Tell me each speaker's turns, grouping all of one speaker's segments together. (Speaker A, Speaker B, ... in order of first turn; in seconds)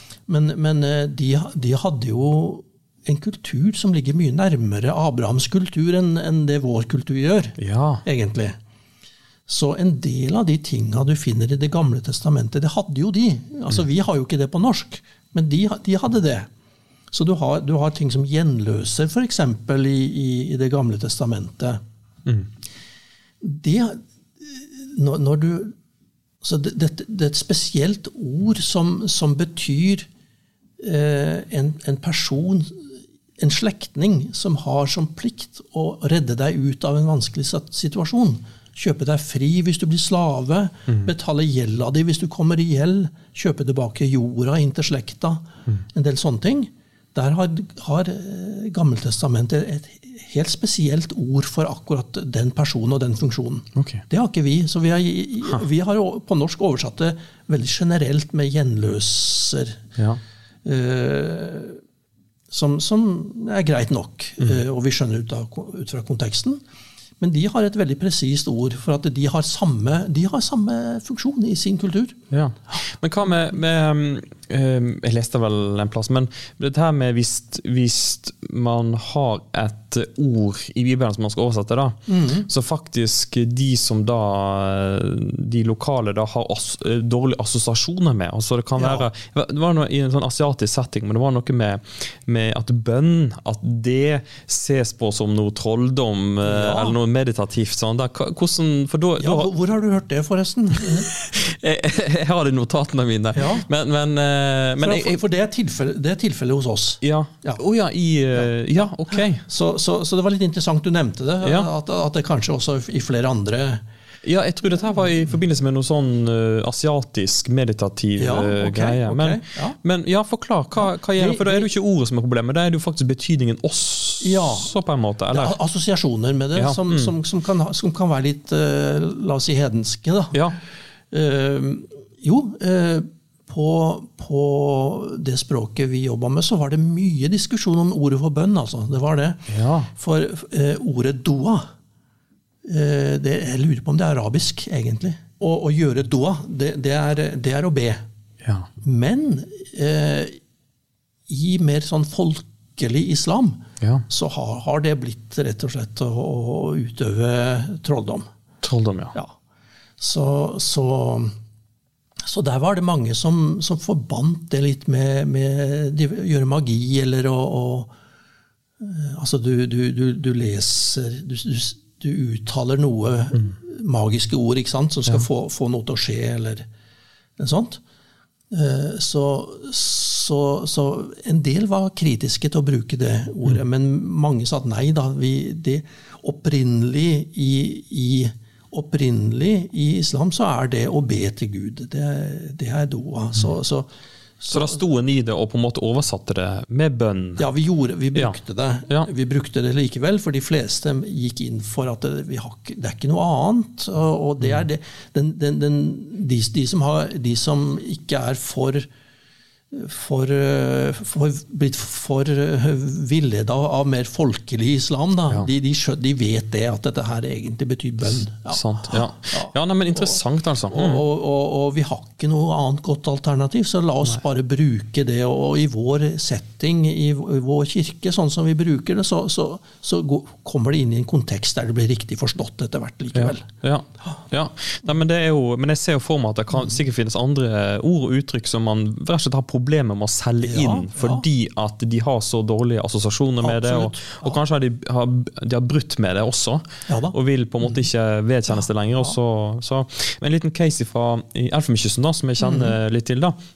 Speaker A: 0.3-8.6, 9.5-16.5, 17.1-21.8, 23.4-25.7, 26.4-30.1, 30.8-59.8, 60.6-61.8, 62.5-66.6, 67.2-72.2, 82.1-82.5, 88.8-89.0, 96.4-96.9, 99.2-101.1, 103.3-103.7, 104.8-107.6, 109.4-113.8, 118.2-119.8, 120.8-121.7, 124.2-124.7, 125.3-130.4, 131.1-141.7, 142.6-148.0, 148.8-150.4, 151.3-158.3, 160.0-161.3, 162.2-167.9, 168.8-176.7, 177.4-177.8, 178.5-193.9, 194.4-194.8, 197.4-208.9, 209.7-233.5, 240.4-241.2, 243.4-244.4, 246.9-247.1, 252.4-252.7
Speaker B: 7.6-8.0, 53.8-54.0, 72.3-99.5, 100.8-105.2, 107.0-109.4, 111.4-111.7, 114.2-125.5, 126.5-127.1, 139.5-139.9, 148.4-148.7, 158.6-159.1, 194.5-197.4, 218.5-221.0, 233.1-253.3